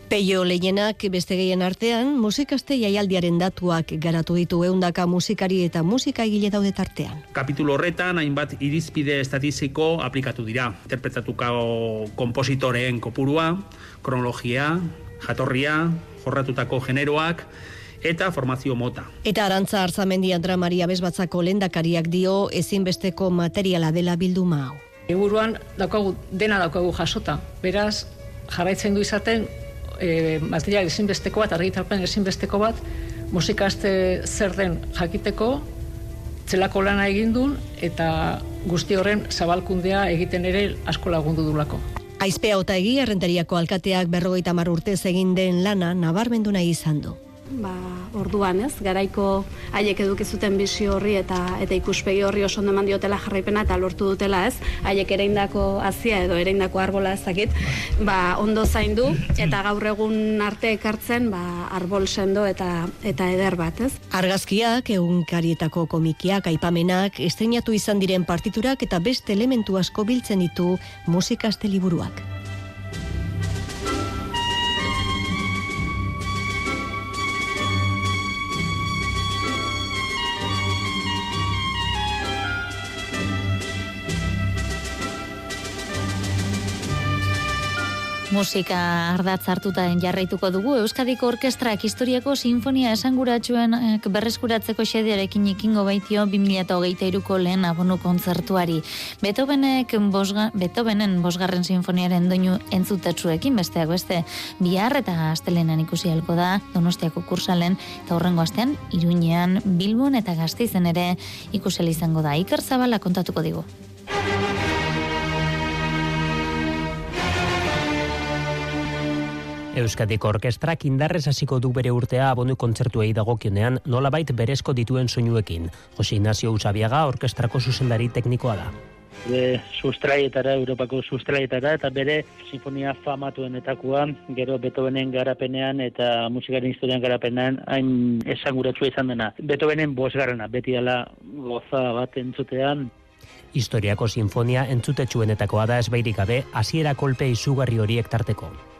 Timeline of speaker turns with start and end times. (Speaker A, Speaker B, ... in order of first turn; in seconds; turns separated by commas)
Speaker A: 0.1-7.2, Speaker B: 7.3-17.4, Speaker B: 18.0-19.1, Speaker A: 19.2-24.8, Speaker C: 25.1-35.7, Speaker C: 36.5-41.8, Speaker A: 42.2-47.2, Speaker D: 47.6-64.0, Speaker A: 64.1-72.2, Speaker E: 88.3-113.7, Speaker F: 119.7-128.7, Speaker G: 129.2-142.9, Speaker F: 143.5-148.6